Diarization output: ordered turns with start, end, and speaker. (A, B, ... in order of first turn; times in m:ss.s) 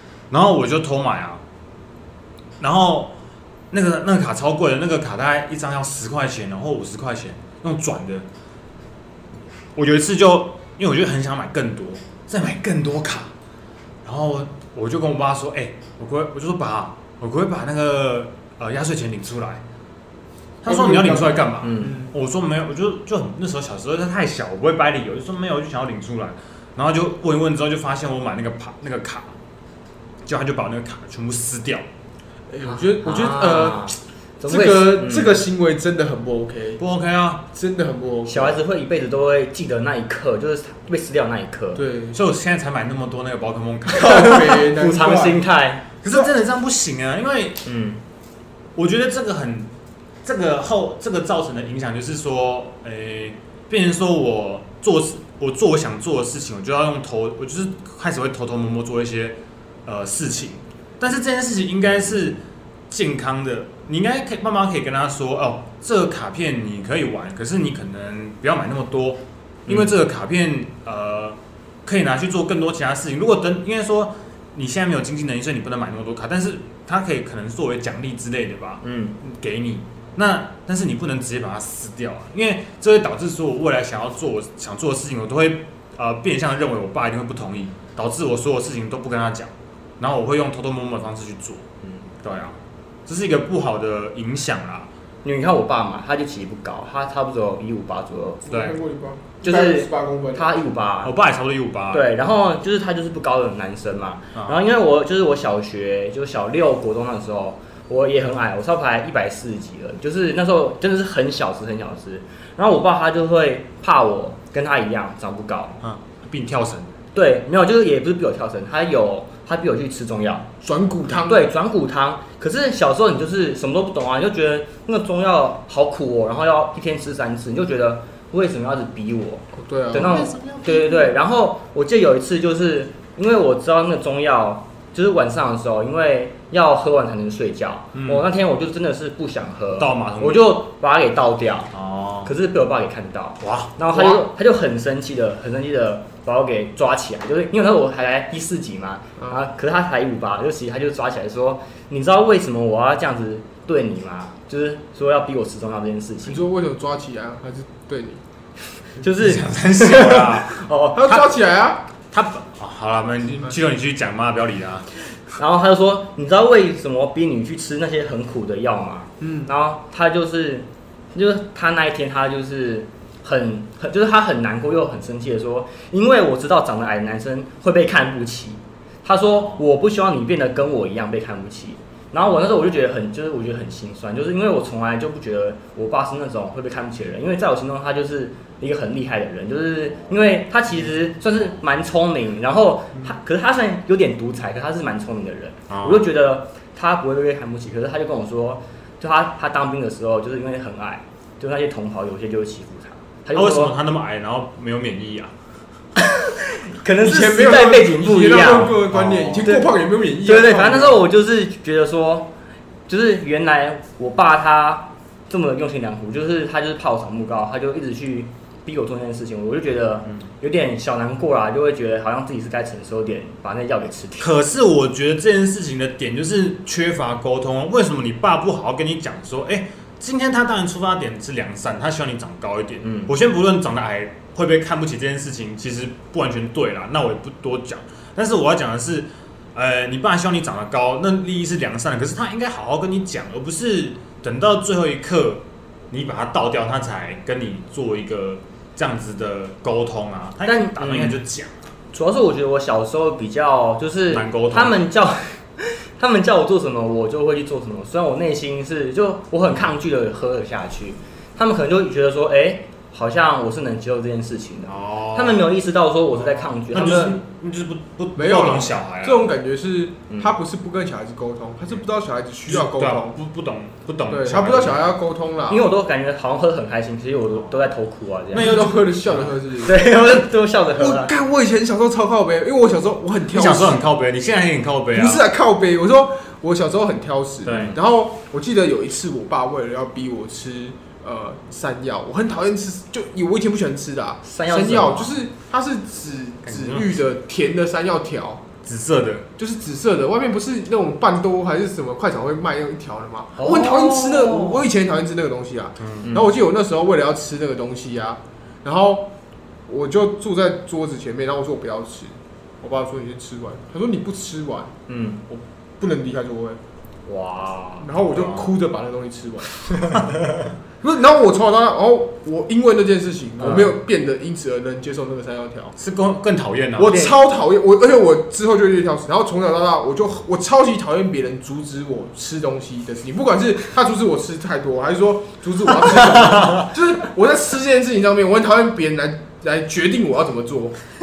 0:00.3-0:01.4 A
0:02.6-0:03.1 A
0:03.7-0:08.3 A
0:09.7-0:13.3 A
0:14.0-0:19.6 A
0:20.6-0:29.3 A
0:20.6-0:22.1 B
0:21.6-0:22.0 C
0:30.2-0:31.8 A
0:32.5-0:36.8 B
0:32.7-0:35.4 C
0:36.8-0:37.4 A
0:37.5-0:38.6 B
0:38.3-0:41.8 C
0:41.7-0:42.2 B
0:42.1-0:44.6 A
0:43.9-0:45.4 B
0:44.0-0:45.9 C
0:46.0-0:47.6 A
0:47.6-0:48.0 C
0:48.8-0:49.7 A
0:50.2-1:31.6 A
1:09.7-1:09.9 C
1:18.8-1:19.2 C
1:32.2-1:34.9 A
1:35.2-1:38.4 C
1:38.5-1:40.5 B
1:38.5-1:38.8 A
1:39.4-1:41.1 C
1:41.0-1:42.1 A
1:41.9-1:55.8 C
1:55.8-1:56.9 A
1:57.1-2:00.5 C
2:00.6-2:01.5 B
2:01.1-2:21.7 C
2:09.5-2:10.4 B
2:10.0-2:11.1 A
2:17.9-2:18.2 A
2:19.8-2:20.6 A
2:21.7-2:22.3 A
2:22.2-2:36.4 C
2:23.4-2:24.3 A
2:36.2-2:38.2 B
2:38.9-2:41.2 C
2:39.0-2:41.2 A
2:40.9-2:41.8 B
2:42.1-2:44.9 A
2:45.3-3:23.7 C
2:49.2-2:49.5 B
2:59.2-2:59.6 A
3:15.7-3:16.0 A
3:23.3-3:25.3 A
3:26.0-3:28.9 C
3:27.0-3:31.0 B
3:28.9-3:29.5 A
3:29.4-3:29.7 C
3:30.2-3:32.3 C
3:32.9-3:44.3 C
3:44.2-4:11.5 A
3:52.8-3:53.1 C
4:10.4-4:11.2 C
4:11.9-4:27.2 C
4:14.1-4:14.8 A
4:24.7-4:25.5 A
4:26.2-4:29.3 A
4:28.1-4:33.2 B
4:30.1-4:30.4 C
4:32.5-4:34.8 A
4:34.1-4:35.7 B
4:35.5-4:38.5 C
4:37.3-4:37.7 A
4:38.3-4:39.4 A
4:38.3-4:39.8 B
4:39.6-4:41.2 C
4:40.8-4:43.8 B
4:43.3-4:45.2 A
4:44.9-4:58.4 B
4:47.4-4:47.8 A
4:54.2-4:55.2 C
4:56.4-4:57.0 A
4:58.6-4:59.2 A
4:59.4-5:09.1 B
5:03.4-5:04.6 C
5:05.8-5:06.1 A
5:06.0-5:06.3 C
5:09.7-5:14.7 B
5:14.9-5:15.2 C
5:15.3-5:16.6 B
5:17.1-5:17.9 C
5:17.8-5:20.0 B
5:18.1-5:18.5 A
5:20.8-5:25.7 B
5:23.4-5:23.8 C
5:25.8-5:27.2 A
5:26.8-5:40.8 B